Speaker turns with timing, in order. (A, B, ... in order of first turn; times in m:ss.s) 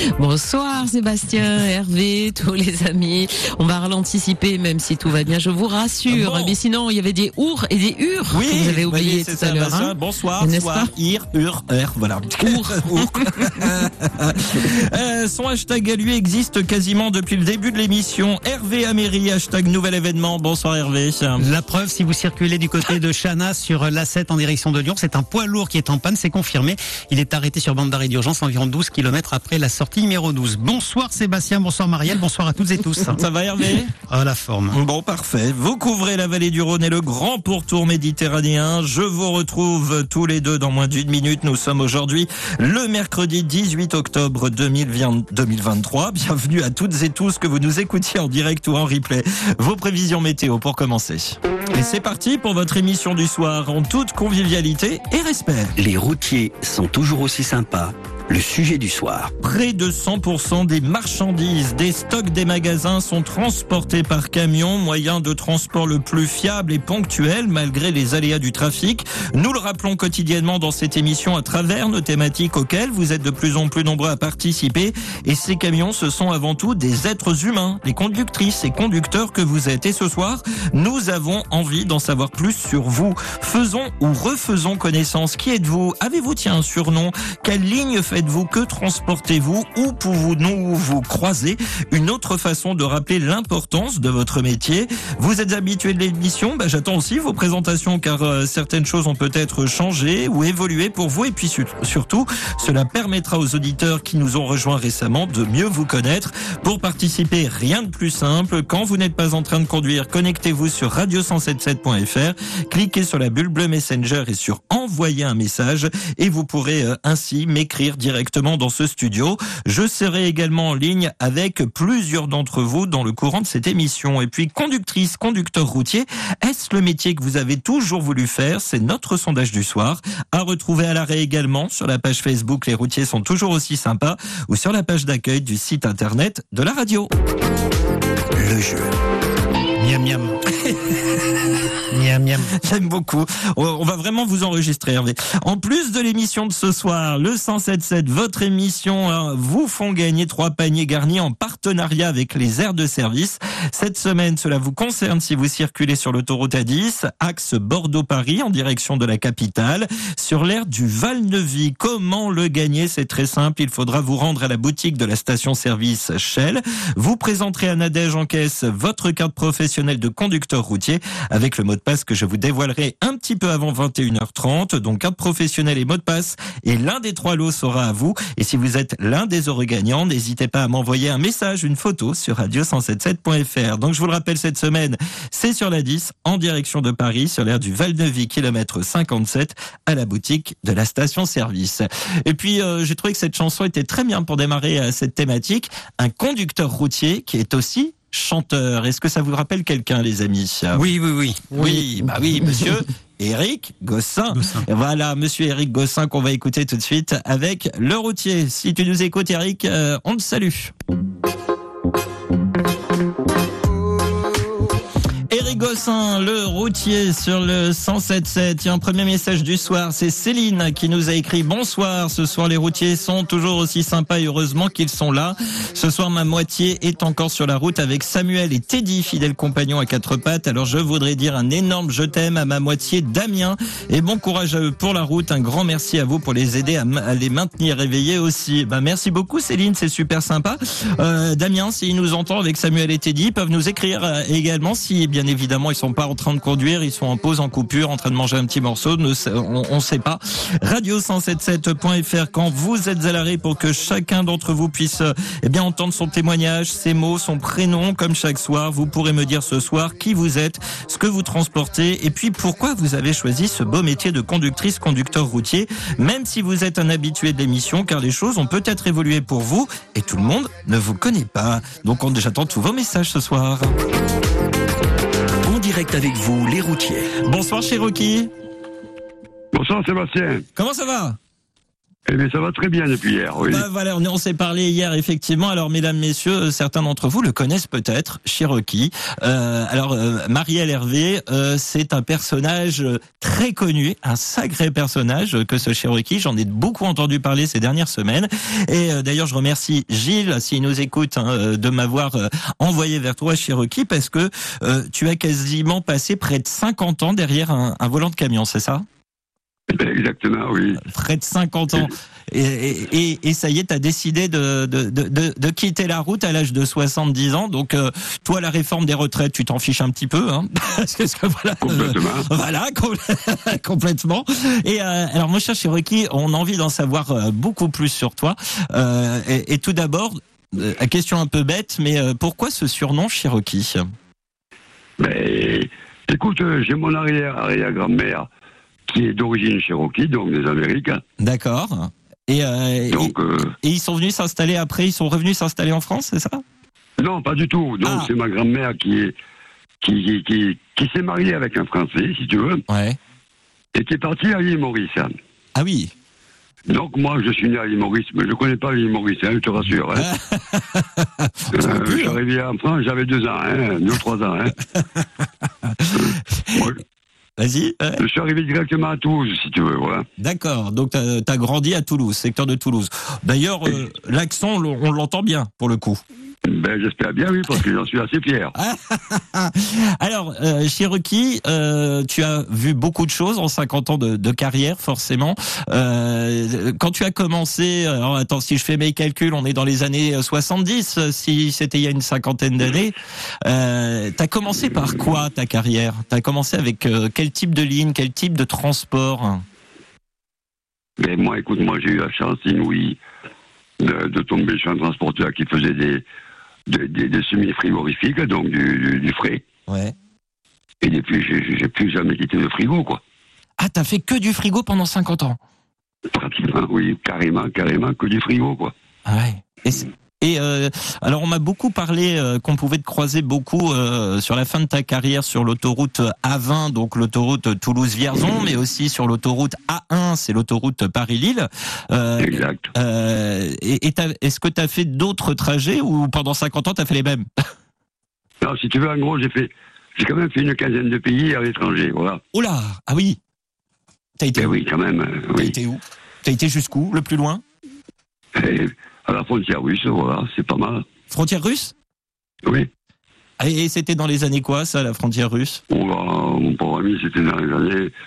0:00.2-0:10.9 A
0:06.1-0:06.6 B
0:08.3-0:21.5 B
0:12.4-0:13.7 A
0:21.4-0:33.2 C
0:33.2-0:33.9 B
0:34.0-0:34.8 C
0:34.7-0:55.7 B
0:55.8-0:59.3 D
0:59.4-2:17.1 B
2:18.4-2:18.9 D
2:19.8-2:20.4 C
2:21.9-2:22.5 C
2:22.6-3:20.8 B
3:20.7-3:21.8 C
3:21.5-3:30.7 B
3:24.3-3:24.6 C
3:35.3-4:33.8 B
4:35.4-4:37.1 D
4:37.2-4:38.3 B
4:39.5-4:40.4 E
4:40.6-4:41.2 B
4:42.1-4:43.6 E
4:43.4-5:08.8 B
5:09.7-5:10.8 E
5:10.8-5:33.8 B
5:21.6-5:22.3 E
5:35.0-5:38.3 E
5:38.9-5:41.0 E
5:41.2-5:46.4 B
5:42.9-5:43.5 E
5:47.0-5:49.1 E
5:47.8-5:48.1 B
5:49.8-5:52.6 E
5:52.7-5:53.0 B
5:53.7-5:55.1 E
5:55.5-5:55.9 B
5:56.7-6:00.1 E
5:59.9-6:02.2 B
6:01.5-6:04.6 E
6:05.6-6:06.7 B
6:05.9-6:06.8 E
6:07.4-6:08.0 B
6:08.0-6:10.0 E
6:10.2-6:16.0 B
6:16.5-6:18.5 E
6:18.6-6:39.4 B
6:41.0-6:43.0 E
6:43.8-6:46.0 E
6:46.7-6:49.4 E
6:49.7-6:49.9 B
6:50.8-6:53.0 E
6:53.6-6:55.4 B
6:56.1-6:58.7 E
6:59.0-7:17.3 B
7:12.2-7:12.7 E
7:18.4-7:22.2 E
7:22.3-7:23.2 B
7:24.2-7:24.5 B
7:24.4-7:25.5 E
7:25.4-7:27.4 B
7:28.3-7:30.8 E
7:31.1-7:31.7 B
7:33.4-7:35.6 B
7:35.7-7:37.9 E